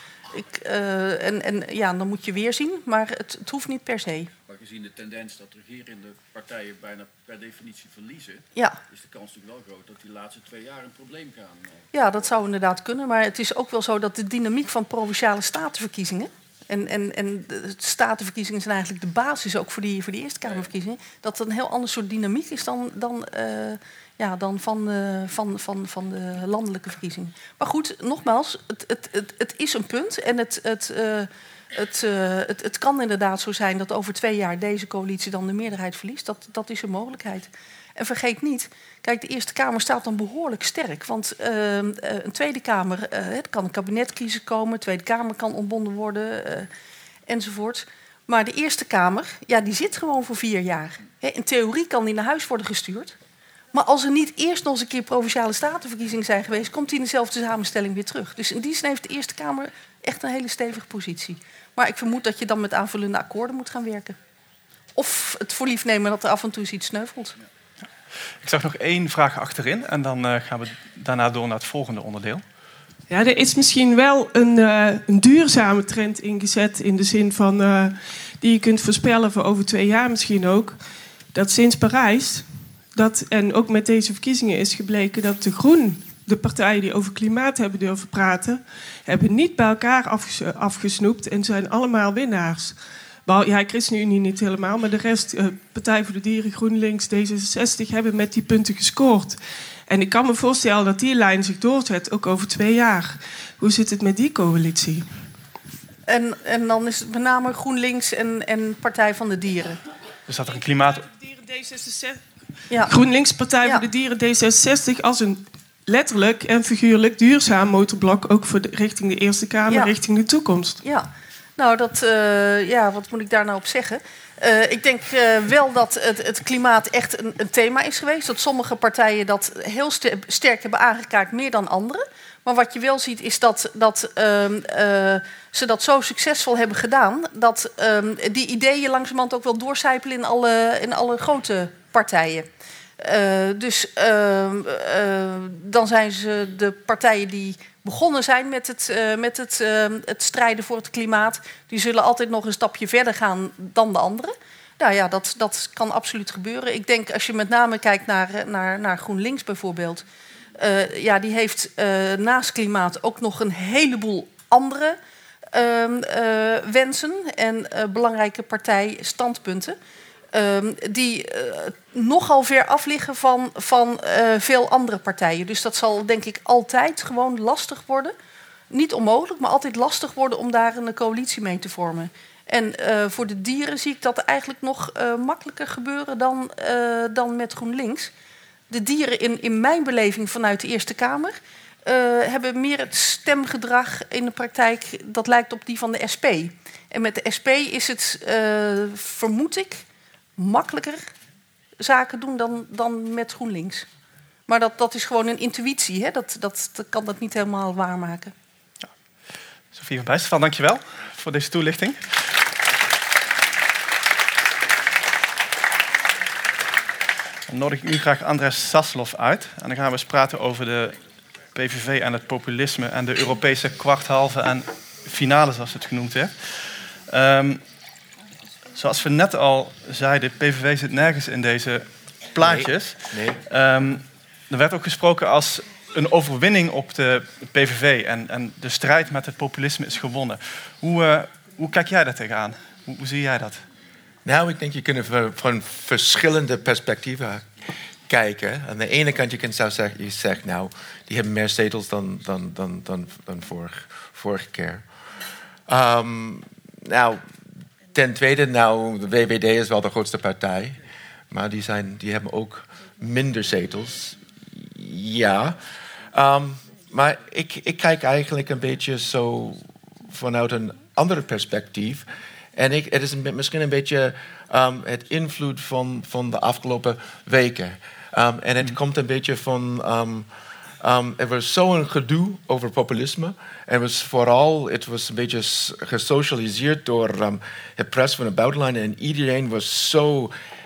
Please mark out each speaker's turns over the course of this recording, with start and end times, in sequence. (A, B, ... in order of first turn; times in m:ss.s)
0:00.3-0:04.3 A
0:04.5-0:11.8 B
0:11.9-0:46.7 A
0:47.3-0:53.2 A
0:53.7-1:04.2 A
1:04.9-1:07.4 A
1:08.4-1:12.4 C
1:13.1-1:20.8 D
1:21.3-1:45.1 D
1:46.1-1:49.8 A
1:50.3-1:51.1 C
1:51.1-1:52.2 D
1:52.7-1:53.0 A
1:52.8-2:00.8 D
1:53.6-1:53.9 A
1:59.7-2:00.0 A
2:00.8-2:22.5 A
2:23.0-2:40.0 A
2:40.6-2:45.0 A
2:45.5-2:49.8 A
2:50.3-2:58.1 A
2:58.7-3:08.1 A
3:08.7-3:19.8 A
3:20.4-3:21.0 A
3:21.8-3:23.8 A
3:24.5-3:28.3 A
3:29.7-3:32.3 C
3:37.5-3:41.0 C
3:41.5-3:47.6 C
3:48.7-4:03.6 C
3:52.4-3:53.4 E
4:04.2-4:07.4 E
4:08.1-4:14.8 E
4:15.7-4:17.2 E
4:17.9-4:20.8 E
4:21.3-4:25.6 E
4:26.1-4:40.3 E
4:40.8-4:50.3 E